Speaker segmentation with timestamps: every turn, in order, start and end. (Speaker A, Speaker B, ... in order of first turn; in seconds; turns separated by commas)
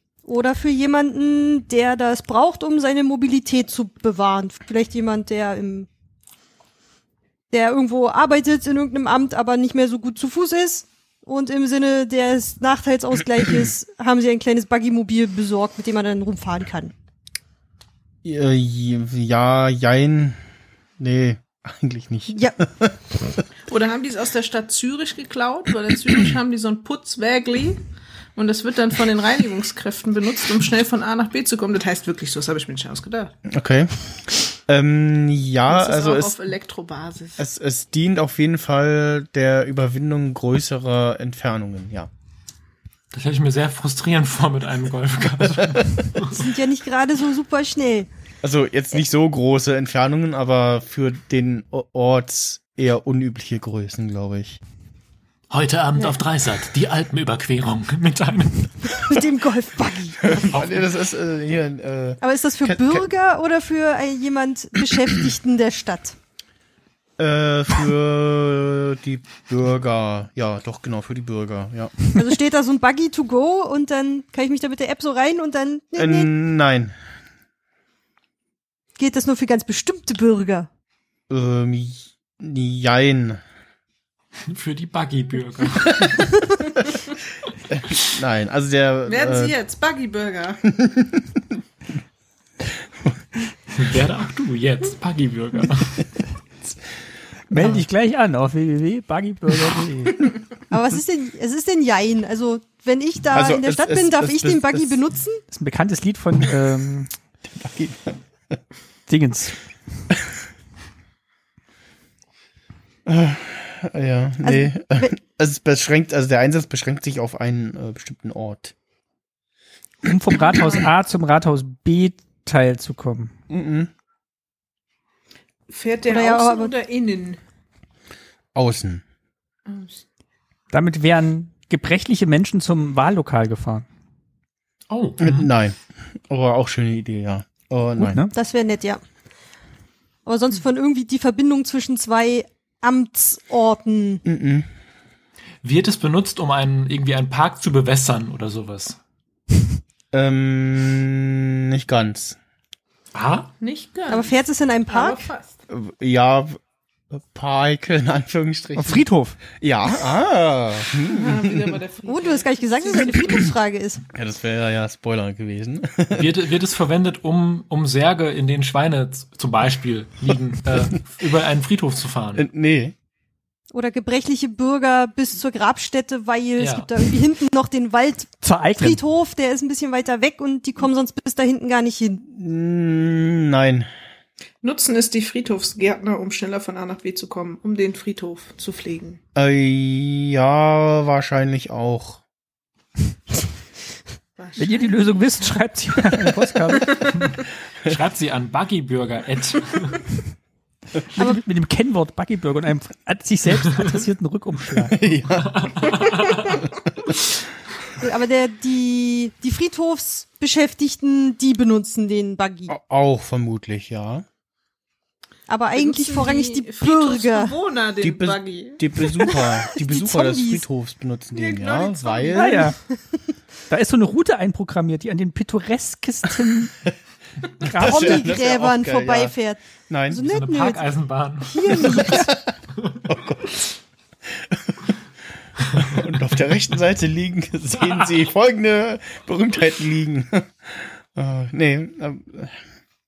Speaker A: 0.2-5.9, Speaker A: 7.5-16.9, Speaker B: 18.2-20.4, Speaker B: 21.0-22.9, Speaker A: 22.3-22.6, Speaker C: 23.7-27.8, Speaker C: 28.3-33.3, Speaker B: 33.5-36.4, Speaker C: 35.7-37.4, Speaker B: 37.4-42.1, Speaker D: 43.1-46.4, Speaker A: 46.2-48.1, Speaker B: 48.4-54.6, Speaker D: 55.5-59.2, Speaker A: 58.9-60.5, Speaker B: 60.2-63.1, Speaker D: 60.5-60.9, Speaker A: 62.2-66.2, Speaker B: 67.2-72.1, Speaker A: 72.1-76.3, Speaker B: 76.0-76.9, Speaker A: 79.0-80.7, Speaker B: 81.3-83.4, Speaker D: 84.5-86.4, Speaker B: 87.7-89.5, Speaker C: 89.0-90.6, Speaker B: 90.7-91.4, Speaker B: 92.7-93.2, Speaker D: 93.7-96.0, Speaker E: 97.5-100.3, Speaker A: 100.7-105.4, Speaker B: 103.3-105.0, Speaker E: 105.5-107.1, Speaker B: 107.4-108.6, Speaker E: 109.1-109.5, Speaker B: 113.0-118.7, Speaker A: 114.4-115.1, Speaker E: 120.0-123.3, Speaker B: 123.5-123.9, Speaker C: 125.7-127.4, Speaker A: 126.0-126.7, Speaker B: 128.5-129.0, Speaker C: 129.7-130.0, Speaker E: 130.7-133.8, Speaker D: 134.9-135.5, Speaker B: 135.2-135.8, Speaker B: 136.3-138.2, Speaker E: 138.0-138.3, Speaker A: 138.3-139.0, Speaker A: 140.2-144.2, Speaker B: 144.2-144.7, Speaker D: 145.6-149.0, Speaker B: 150.1-152.4, Speaker D: 153.1-153.5, Speaker C: 153.6-154.3, Speaker A: 154.1-155.3, Speaker C: 154.9-155.6, Speaker B: 155.7-156.6, Speaker B: 157.1-159.1, Speaker E: 158.8-159.4, Speaker B: 159.6-161.8, Speaker C: 161.1-163.4, Speaker A: 162.1-164.0, Speaker B: 164.1-166.3, Speaker D: 166.1-172.4, Speaker B: 172.3-172.9, Speaker A: 173.7-182.2, Speaker D: 176.6-176.9, Speaker E: 178.4-179.0, Speaker B: 182.3-183.9, Speaker C: 184.6-189.2, Speaker B: 189.3-192.2, Speaker C: 194.4-195.1, Speaker E: 194.6-197.1, Speaker D: 197.8-200.0, Speaker E: 201.1-205.0, Speaker B: 204.9-206.7, Speaker D: 205.4-206.6, Speaker A: 208.0-212.7, Speaker B: 212.7-214.2, Speaker A: 215.5-217.6, Speaker C: 215.7-219.3, Speaker B: 218.0-222.7, Speaker A: 219.2-220.6, Speaker C: 221.3-222.7, Speaker E: 222.3-222.8, Speaker E: 223.7-226.8, Speaker B: 227.6-229.3, Speaker E: 227.6-228.2, Speaker A: 227.7-230.9, Speaker B: 229.9-230.2, Speaker D: 230.2-232.2, Speaker A: 231.5-232.3, Speaker B: 231.7-232.5, Speaker B: 233.1-233.7, Speaker B: 234.3-234.9, Speaker B: 235.7-242.6